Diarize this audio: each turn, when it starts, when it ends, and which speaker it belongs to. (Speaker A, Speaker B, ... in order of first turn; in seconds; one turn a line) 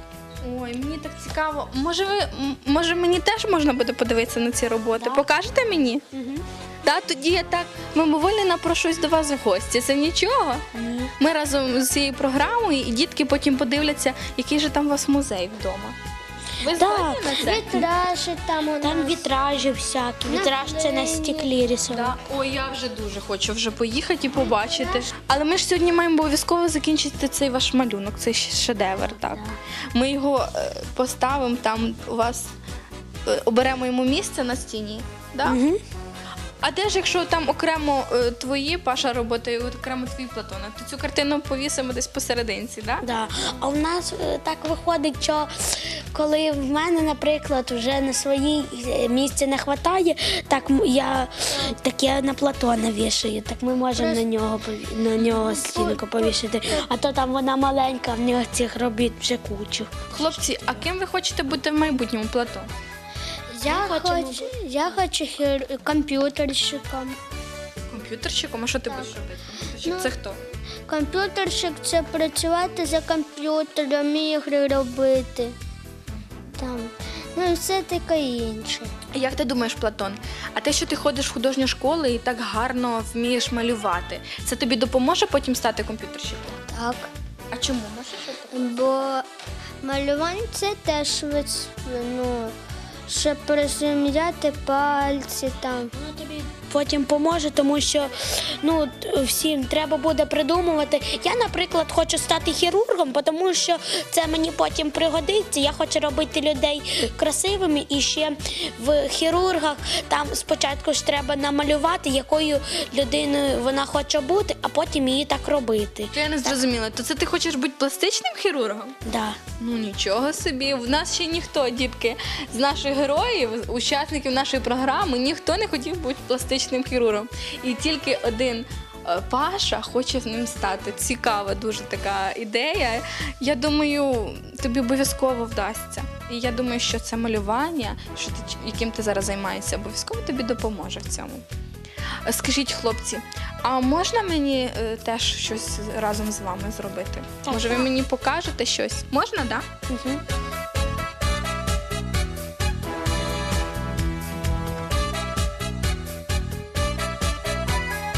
Speaker A: 0.4-6.0
Speaker B: 5.0-5.2
Speaker B: 6.1-6.5
Speaker A: 6.8-10.6
Speaker B: 10.7-11.1
Speaker A: 11.2-15.9
Speaker A: 16.6-17.8
Speaker B: 16.7-17.8
Speaker C: 17.4-19.3
Speaker B: 18.8-22.1
Speaker C: 20.2-21.5
Speaker A: 21.9-29.4
Speaker C: 24.6-25.1
Speaker B: 29.1-29.6
Speaker A: 29.9-32.5
Speaker A: 33.3-35.6
Speaker B: 35.4-35.8
Speaker A: 36.6-43.0
Speaker B: 43.0-60.4
Speaker C: 53.9-54.2
Speaker C: 55.4-56.9
Speaker A: 60.1-62.7
Speaker C: 63.5-67.2
Speaker B: 63.6-65.0
Speaker A: 67.9-70.4
Speaker C: 69.8-70.1
Speaker C: 70.9-75.5
Speaker C: 76.6-78.9
Speaker A: 79.1-86.6
Speaker C: 86.7-87.1
Speaker A: 87.5-88.8
Speaker C: 88.5-89.2
Speaker C: 89.8-92.5
Speaker C: 93.1-95.9
Speaker B: 96.0-116.2
Speaker A: 116.1-118.9
Speaker B: 119.0-119.4
Speaker A: 119.6-141.4
Speaker A: 142.2-149.6
Speaker B: 147.4-147.9
Speaker B: 149.9-150.2